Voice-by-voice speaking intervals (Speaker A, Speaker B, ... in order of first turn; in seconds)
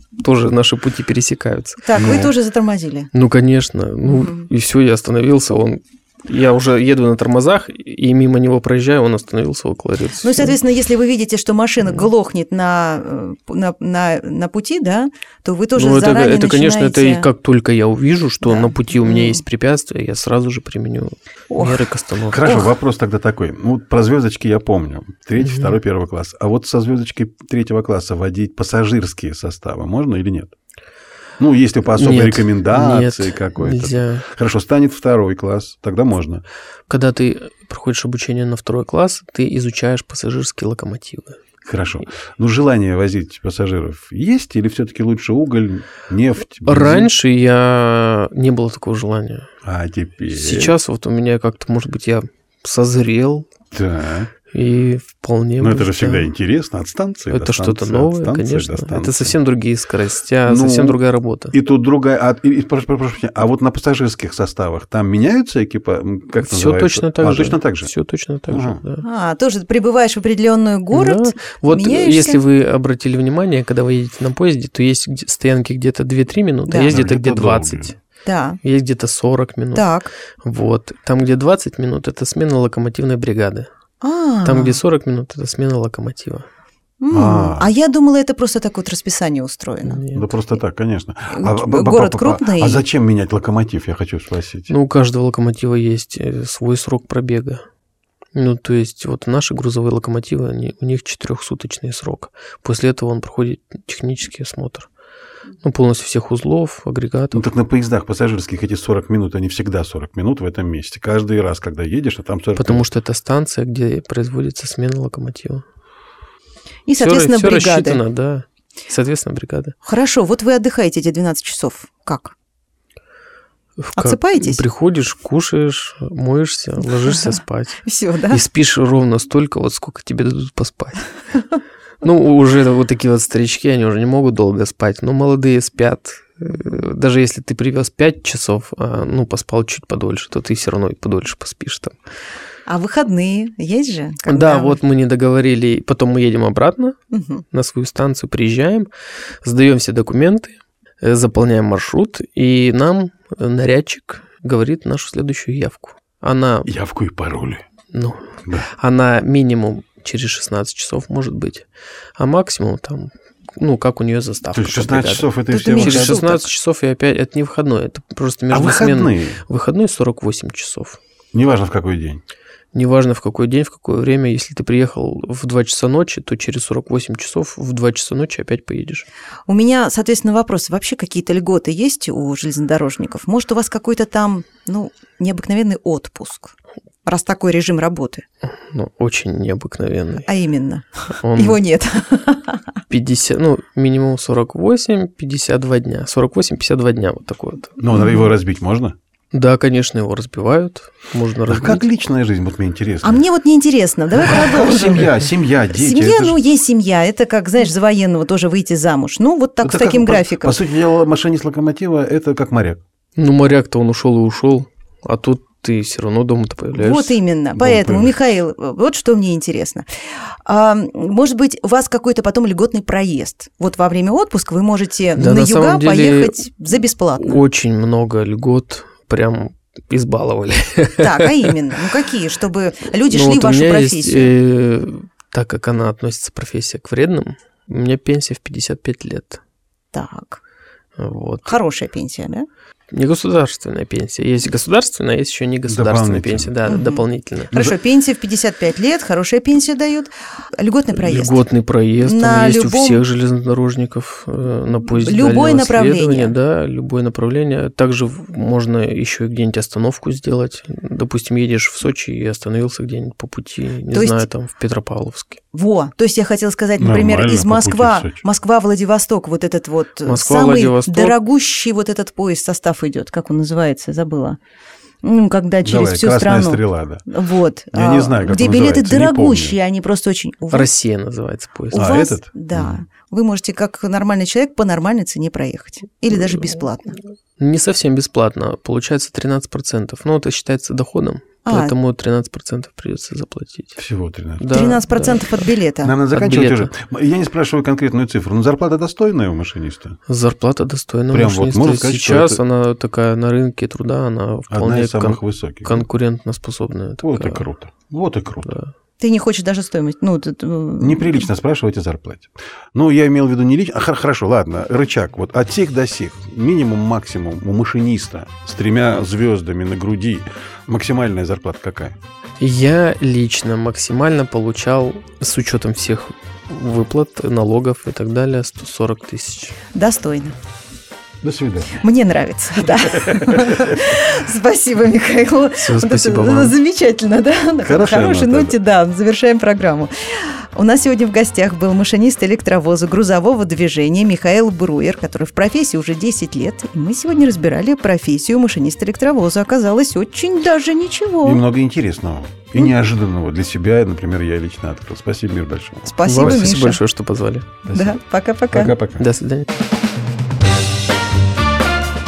Speaker A: 0.2-1.8, 3.1-10.5, 15.8-22.4, 25.4-25.8, 31.9-34.2, 36.9-41.4, 46.6-49.5, 50.3-53.5, 54.5-56.3, 57.3-61.5, 66.3-69.0, 70.9-77.9, 78.6-79.9, 80.4-83.7, 84.4-86.5, 89.8-90.3, 94.7-97.6, 98.3-104.9, 105.6-107.5, 112.5-115.6, 117.0-119.7, 123.8-131.1, 132.0-141.9, 144.3-147.0, 147.5-148.9, 149.4-156.7, 157.9-161.7, 162.2-171.0, 172.7-179.1, 188.4-190.3, 191.1-191.6, 192.9-197.7, 199.3-201.8, 213.2-217.2, 225.2-226.4, 227.2-231.5, 233.1-239.4, 241.0-241.6, 242.9-247.5, 251.0-265.4, 270.1-271.2, 280.5-281.8, 287.4-293.8, 294.4-295.5, 296.1-296.7, 300.1-307.4, 322.4-329.6, 335.5-336.5, 356.0-357.5, 359.0-359.5
Speaker B: 1.8-3.1, 4.1-4.5, 10.2-17.3, 18.4-19.4, 21.5-21.9, 22.4-22.7, 69.0-72.4, 76.7-77.0, 78.2-78.6, 79.7-80.1, 84.0-84.8, 87.0-90.0, 91.3-92.8, 116.8-118.0, 119.8-122.3, 124.0-124.6, 127.8-128.4, 142.7-144.8, 147.1-147.4, 165.5-166.4, 179.5-186.5, 187.0-188.2, 190.2-192.6, 197.9-198.2, 203.0-205.2, 205.7-210.6, 216.7-219.8, 220.4-227.4, 231.0-234.3, 239.9-240.4, 241.4-242.5, 246.7-251.4, 252.0-253.0, 254.9-256.3, 263.9-264.3, 265.5-274.4, 275.0-280.7, 281.7-286.9, 291.4-291.7, 294.5-296.0, 309.0-311.3, 329.7-330.3, 331.7-351.4, 355.9-356.8, 357.7-358.7
Speaker C: 1.9-2.3, 22.3-30.5, 31.4-36.4, 41.6-47.1, 49.6-50.8, 53.7-54.3, 55.6-59.4, 60.5-61.0, 61.5-67.9, 68.5-68.8, 76.9-77.9, 87.1-87.7, 90.1-94.7, 107.3-112.8, 156.7-157.6, 164.5-166.2, 168.5-169.4, 171.3-172.2, 197.8-198.9, 201.5-203.2, 204.2-206.4, 209.6-212.8, 217.6-218.2, 245.7-246.5, 266.8-268.2, 275.6-277.0, 277.7-279.6, 281.7-282.8, 293.8-294.6, 295.8-300.0, 301.1-302.4, 304.5-305.8, 307.0-308.5, 310.8-322.0, 331.2-331.8, 332.9-333.7, 337.6-338.5, 351.2-356.6, 357.7-358.0, 358.5-359.0